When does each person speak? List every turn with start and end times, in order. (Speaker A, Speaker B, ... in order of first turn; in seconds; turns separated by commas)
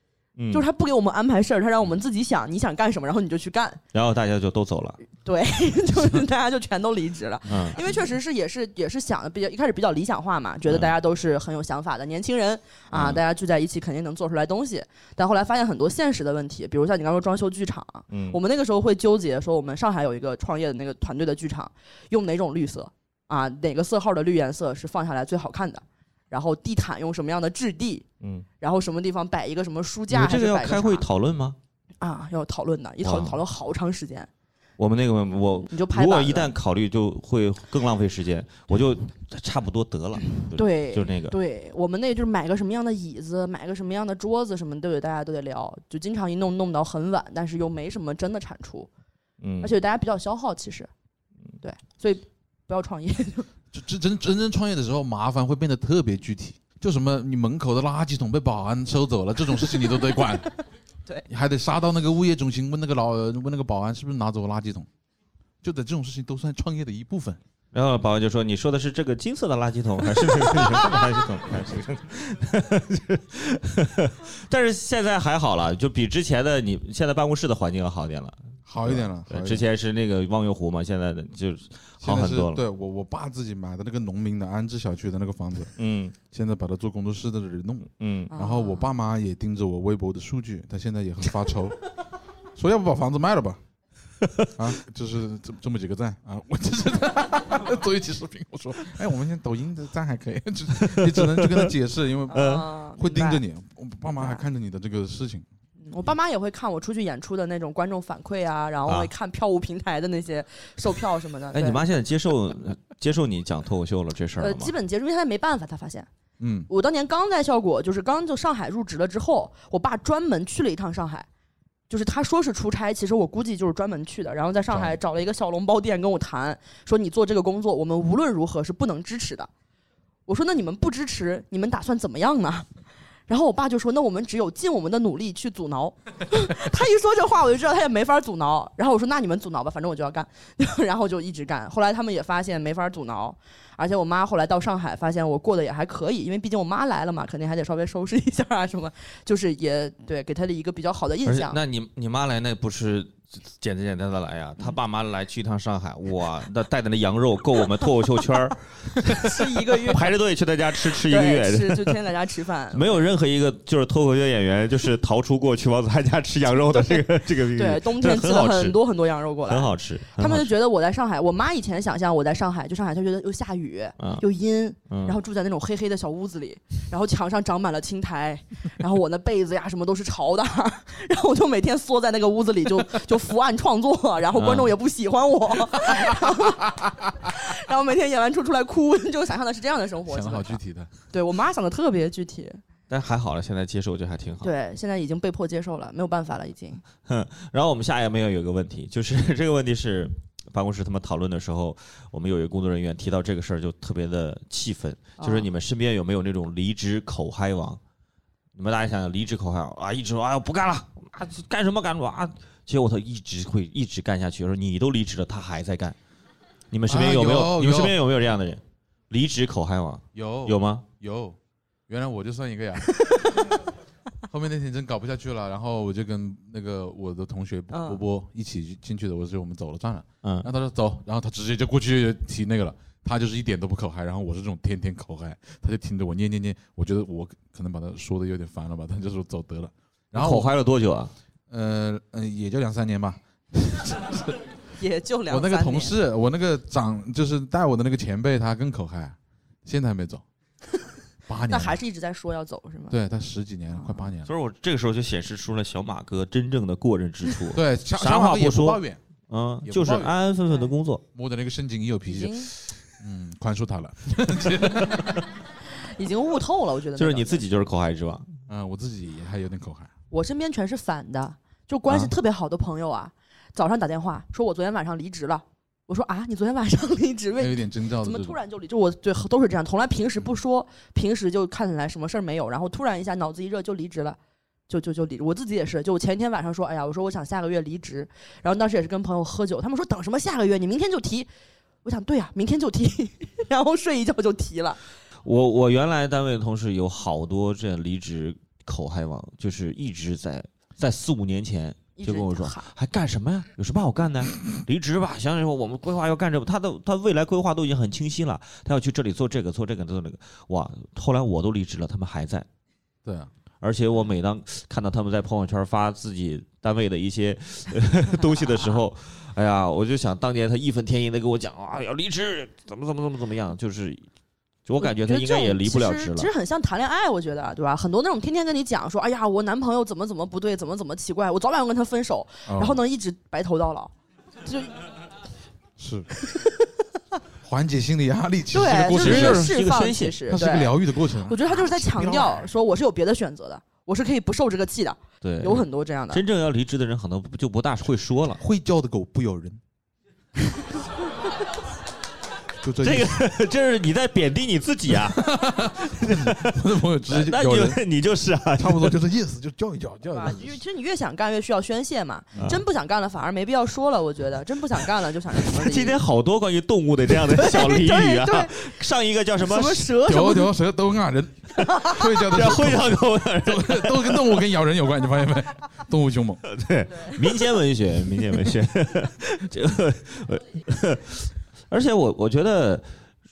Speaker A: 0.4-0.7, Speaker B: 0.5-3.8, Speaker A: 3.9-5.0, Speaker B: 5.2-28.1, Speaker A: 7.5-7.8, Speaker A: 10.7-10.9, Speaker A: 12.9-13.2, Speaker A: 18.1-18.4, Speaker B: 28.6-31.1, Speaker A: 30.1-31.6, Speaker B: 32.0-34.3, Speaker A: 33.0-33.4, Speaker A: 34.8-41.4, Speaker B: 35.7-36.5, Speaker B: 40.5-48.9, Speaker A: 49.4-49.7, Speaker B: 49.6-50.9, Speaker B: 51.6-53.5, Speaker C: 53.7-60.5, Speaker C: 61.3-64.9, Speaker C: 65.6-67.4, Speaker A: 67.7-82.6, Speaker C: 78.7-79.7, Speaker C: 82.0-85.7, Speaker A: 85.8-86.2, Speaker C: 86.3-91.8, Speaker A: 88.0-88.3, Speaker B: 88.3-88.9, Speaker C: 92.5-93.6, Speaker C: 94.6-105.5, Speaker A: 100.8-101.7, Speaker B: 102.3-103.4, Speaker A: 102.3-102.7, Speaker B: 104.2-104.4, Speaker B: 105.9-111.8, Speaker A: 111.5-114.7, Speaker B: 114.4-116.1, Speaker C: 116.4-116.7, Speaker B: 116.7-121.3, Speaker B: 121.9-129.5, Speaker C: 124.7-125.0, Speaker B: 130.3-132.7, Speaker B: 133.3-151.6, Speaker A: 151.2-162.0, Speaker B: 159.1-160.1, Speaker B: 161.1-163.1, Speaker A: 162.7-168.8, Speaker B: 166.7-192.6, Speaker A: 169.4-170.5, Speaker A: 174.0-174.2, Speaker A: 174.9-175.2, Speaker A: 184.3-184.7, Speaker C: 190.1-190.9, Speaker A: 192.9-194.5, Speaker B: 194.4-196.8, Speaker A: 197.1-207.8, Speaker B: 205.2-205.5, Speaker A: 208.6-216.0, Speaker A: 216.7-220.9, Speaker C: 216.9-218.0, Speaker C: 220.2-223.0, Speaker C: 224.3-240.5, Speaker B: 227.7-228.0, Speaker A: 230.2-230.5, Speaker A: 240.1-241.1, Speaker C: 241.5-244.4, Speaker B: 244.8-246.0, Speaker C: 245.3-250.2, Speaker C: 251.3-251.8, Speaker B: 251.5-253.0, Speaker C: 252.9-254.3, Speaker B: 253.8-254.1, Speaker A: 254.3-261.0, Speaker C: 257.5-259.0, Speaker C: 259.6-260.1, Speaker C: 261.1-265.2, Speaker B: 262.1-262.5, Speaker B: 265.8-267.4, Speaker A: 267.0-268.3, Speaker C: 268.5-269.9, Speaker B: 270.1-284.2, Speaker C: 277.4-278.4, Speaker B: 284.7-291.3, Speaker B: 291.8-294.8, Speaker A: 295.2-312.5, Speaker B: 302.0-302.7, Speaker C: 313.1-313.3, Speaker A: 313.6-324.1, Speaker A: 324.7-326.3, Speaker B: 324.8-333.9, Speaker C: 332.5-332.8, Speaker B: 334.4-334.7, Speaker C: 335.8-336.1, Speaker C: 337.4-339.5, Speaker B: 338.5-340.7, Speaker A: 338.9-340.2, Speaker C: 340.3-342.3, Speaker B: 341.2-346.2, Speaker A: 345.2-348.4, Speaker C: 348.4-349.6, Speaker C: 352.6-353.2, Speaker A: 352.8-359.0, Speaker C: 354.9-357.8, Speaker C: 358.6-360.6, Speaker B: 360.1-366.0, Speaker A: 365.5-369.9, Speaker B: 367.3-368.7, Speaker B: 369.4-370.5, Speaker C: 370.1-376.4, Speaker B: 371.6-372.0, Speaker A: 372.2-374.4, Speaker A: 376.5-382.9